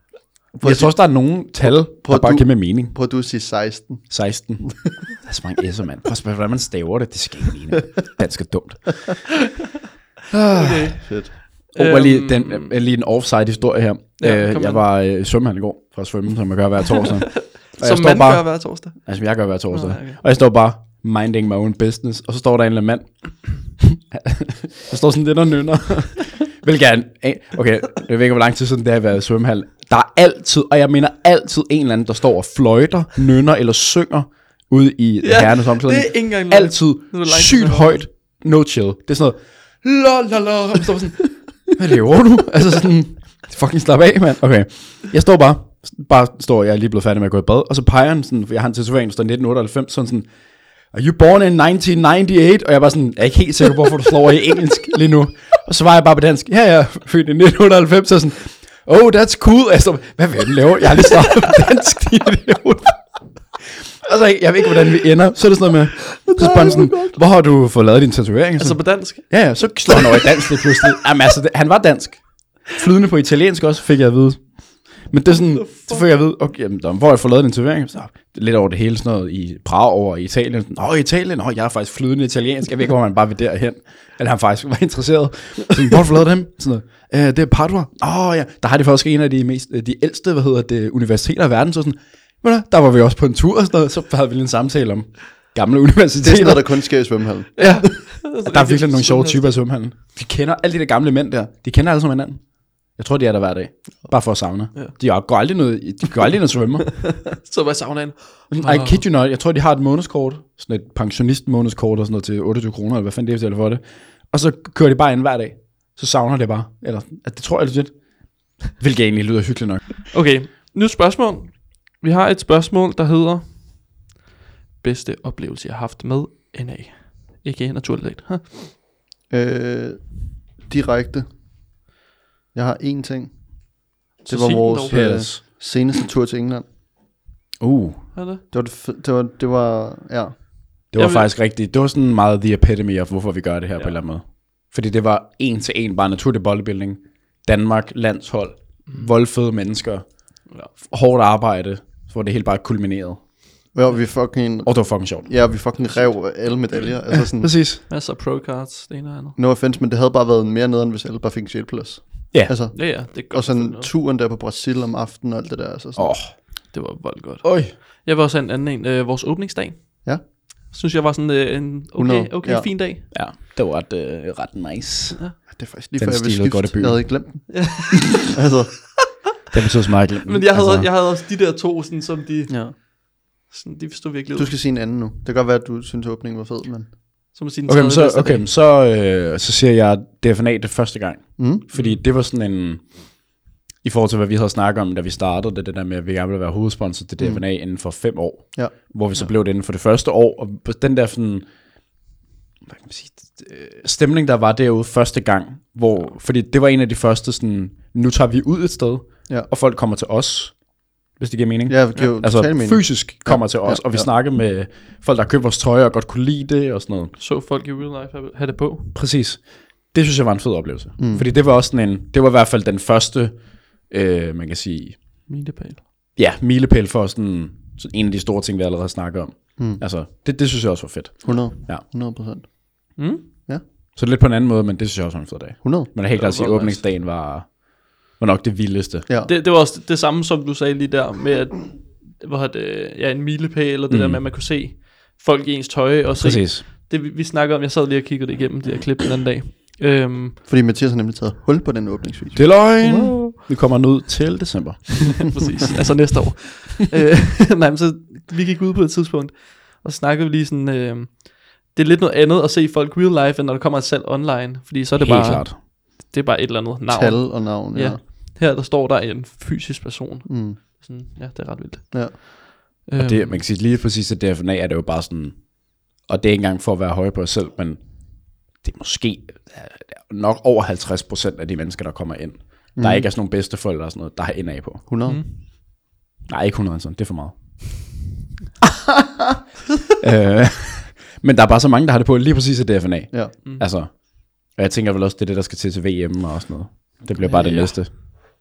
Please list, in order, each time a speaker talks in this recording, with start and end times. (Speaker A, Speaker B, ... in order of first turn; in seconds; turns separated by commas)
Speaker A: 0.6-5.0, Speaker B: 0.6-3.0, Speaker B: 4.1-9.4, Speaker B: 10.3-11.0, Speaker C: 10.5-12.8, Speaker A: 11.0-11.4, Speaker B: 11.7-50.3, Speaker C: 14.2-14.8, Speaker C: 17.6-20.2, Speaker C: 35.2-38.0, Speaker B: 50.9-97.0, Speaker A: 66.3-67.1, Speaker C: 66.4-66.7, Speaker C: 68.6-70.2, Speaker C: 75.3-76.0, Speaker A: 96.2-97.8, Speaker C: 97.6-99.6, Speaker B: 97.6-107.2, Speaker C: 107.4-109.0, Speaker B: 108.5-120.1, Speaker C: 120.1-124.0, Speaker C: 124.8-128.7, Speaker A: 129.3-131.3, Speaker A: 132.5-136.7, Speaker C: 134.2-135.1, Speaker B: 134.9-135.4, Speaker B: 137.6-138.1, Speaker C: 138.2-138.4, Speaker A: 138.5-140.5, Speaker B: 140.9-153.3, Speaker C: 140.9-141.3, Speaker A: 153.7-157.5, Speaker B: 154.7-155.6, Speaker C: 155.8-156.5, Speaker B: 157.4-157.8, Speaker C: 157.9-159.4, Speaker A: 159.4-166.2, Speaker C: 162.7-163.9, Speaker B: 166.0-166.4, Speaker C: 166.7-173.1, Speaker B: 167.4-167.7, Speaker A: 172.0-172.8, Speaker B: 173.1-175.2, Speaker A: 175.5-179.2, Speaker B: 176.0-177.2, Speaker C: 177.5-178.3, Speaker B: 179.5-180.9, Speaker C: 180.2-182.9, Speaker A: 182.5-182.8, Speaker C: 183.5-184.5, Speaker A: 184.3-187.3, Speaker C: 187.3-188.5, Speaker B: 187.7-193.3, Speaker A: 191.4-191.7, Speaker C: 191.7-192.0, Speaker B: 193.8-201.5, Speaker A: 197.2-197.4, Speaker B: 202.7-217.2, Speaker A: 211.7-214.1, Speaker C: 217.2-218.9, Speaker B: 218.9-225.1, Speaker A: 221.0-221.3, Speaker C: 225.3-225.8, Speaker B: 226.2-231.8, Speaker A: 229.6-229.8, Speaker A: 231.2-233.6, Speaker C: 233.0-233.3, Speaker B: 233.9-239.1, Speaker A: 235.6-235.9, Speaker C: 236.1-236.9, Speaker A: 239.1-239.3, Speaker C: 239.3-250.4, Speaker B: 243.9-244.2, Speaker B: 246.2-246.7, Speaker A: 250.4-252.8, Speaker B: 252.3-255.3, Speaker C: 252.8-253.3, Speaker C: 255.3-273.4, Speaker B: 265.0-265.6, Speaker A: 266.9-268.0, Speaker A: 270.3-270.6, Speaker A: 271.9-272.2, Speaker B: 273.0-284.9, Speaker A: 282.8-283.1, Speaker A: 284.9-285.2, Speaker C: 285.1-285.4, Speaker B: 286.3-287.9, Speaker B: 290.0-297.9, Speaker C: 297.2-298.0